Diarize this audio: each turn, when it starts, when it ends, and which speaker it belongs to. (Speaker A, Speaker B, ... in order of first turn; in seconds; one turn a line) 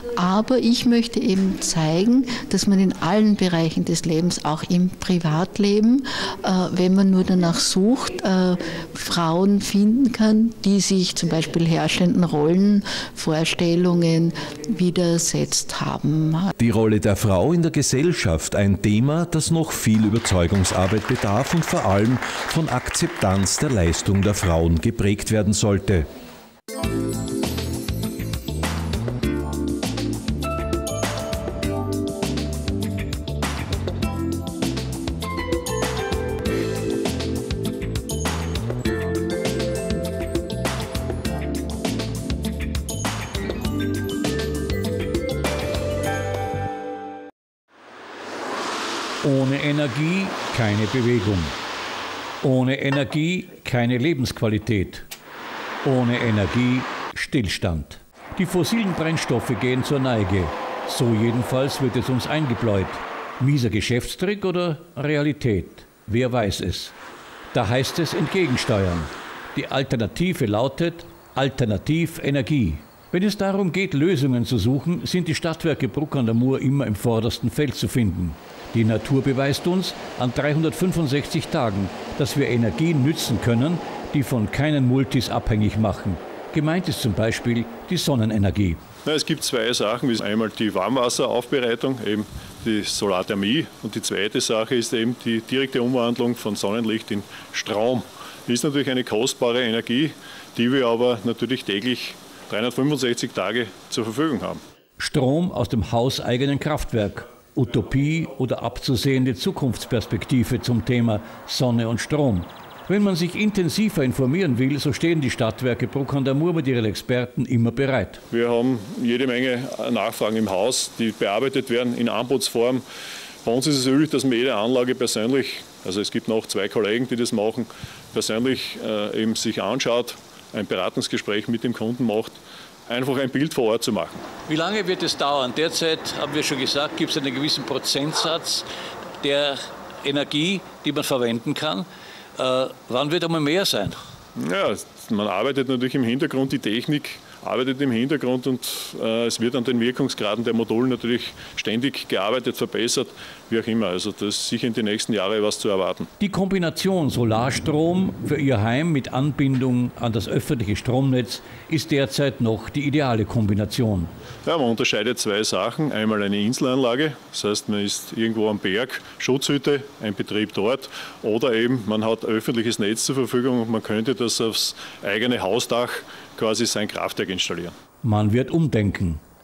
Speaker A: 0.1-16.5
Speaker B: 16.6-26.1
Speaker C: 49.2-51.5
Speaker C: 52.4-55.0
Speaker C: 55.8-66.9
Speaker C: 67.5-88.8
Speaker D: 89.0-104.6
Speaker C: 105.0-118.2
Speaker D: 118.3-122.8
Speaker D: 123.5-132.3
Speaker D: 132.9-134.2
Speaker C: 134.5-138.7
Speaker C: 139.2-141.9
Speaker C: 142.4-144.0
Speaker D: 144.4-156.1
Speaker C: 156.2-164.1
Speaker D: 164.4-177.7
Speaker C: 178.0-179.2